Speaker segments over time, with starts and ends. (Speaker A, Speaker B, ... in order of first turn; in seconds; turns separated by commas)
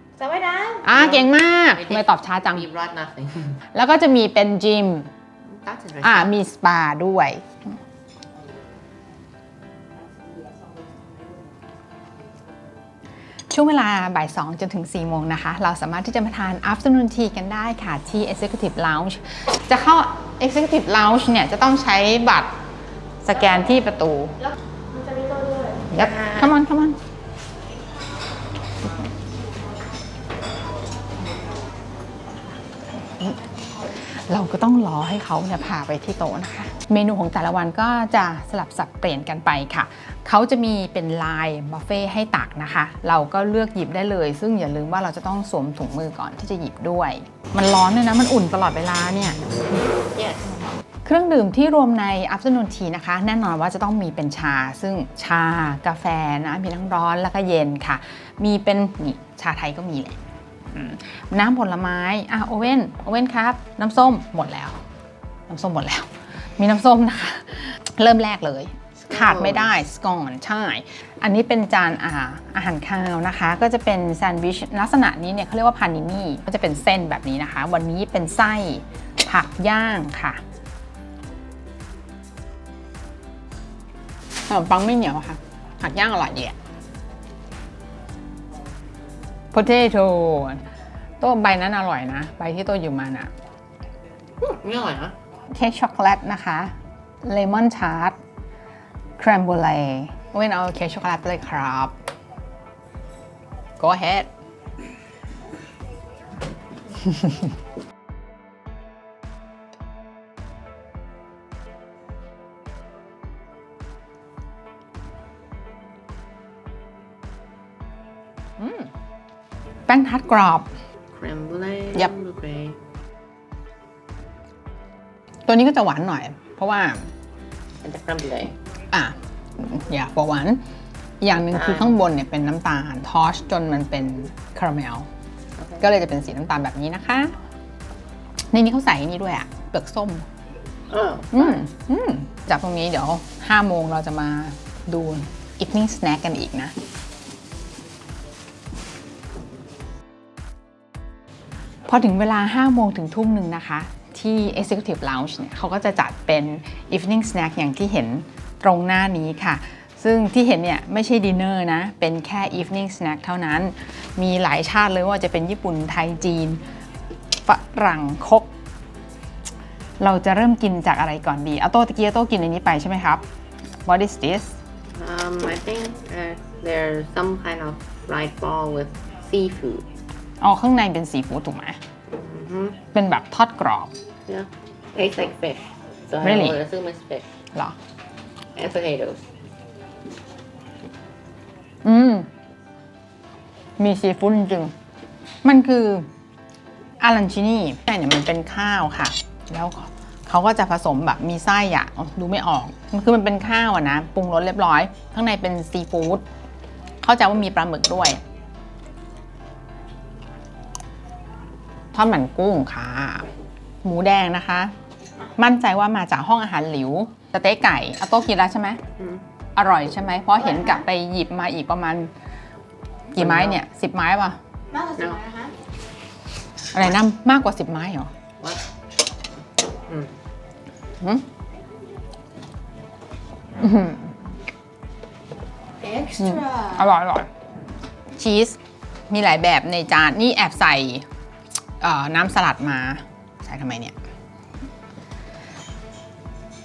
Speaker A: 0.2-0.9, Speaker B: 0.8-2.7, Speaker C: 0.9-3.6, Speaker B: 3.7-5.1, Speaker C: 5.5-6.3, Speaker B: 6.0-7.5, Speaker B: 13.5-22.5, Speaker B: 23.2-24.4, Speaker A: 24.4-25.9, Speaker B: 25.9-27.0, Speaker C: 25.9-26.5, Speaker B: 34.1-49.4, Speaker C: 50.1-50.5, Speaker B: 51.0-60.2, Speaker B: 60.7-64.8, Speaker B: 65.5-80.4, Speaker C: 69.1-69.7, Speaker B: 84.5-86.6, Speaker B: 89.5-90.6, Speaker B: 91.2-93.3, Speaker C: 94.4-95.2, Speaker B: 95.5-98.2, Speaker B: 99.2-101.9, Speaker B: 103.8-104.3, Speaker B: 118.6-118.9, Speaker B: 119.9-120.7, Speaker C: 121.1-122.8, Speaker B: 125.5-127.0, Speaker C: 127.8-128.6, Speaker B: 128.9-130.6, Speaker B: 131.2-135.1, Speaker C: 131.5-132.0, Speaker B: 135.8-137.3, Speaker B: 138.5-140.3, Speaker C: 140.9-141.5, Speaker B: 141.3-146.7, Speaker B: 151.9-166.6, Speaker B: 167.5-168.5, Speaker B: 170.0-173.2, Speaker B: 173.9-174.6, Speaker C: 174.9-179.9, Speaker B: 180.4-181.8, Speaker C: 182.1-182.8, Speaker B: 182.9-183.9, Speaker C: 184.3-187.2, Speaker B: 186.2-186.6, Speaker C: 188.6-189.2, Speaker B: 191.8-192.3, Speaker B: 193.8-194.7, Speaker B: 195.4-196.1, Speaker B: 197.0-206.2, Speaker B: 207.0-208.2, Speaker B: 211.9-213.3, Speaker B: 213.8-214.7, Speaker B: 215.4-218.8, Speaker B: 219.6-222.1, Speaker A: 220.4-220.8, Speaker B: 223.1-224.4, Speaker C: 223.2-223.6, Speaker A: 224.7-225.5, Speaker B: 226.7-228.1, Speaker B: 233.6-234.1, Speaker A: 235.8-236.9, Speaker B: 236.2-237.3, Speaker B: 238.2-238.6, Speaker B: 239.1-241.1, Speaker B: 241.8-243.9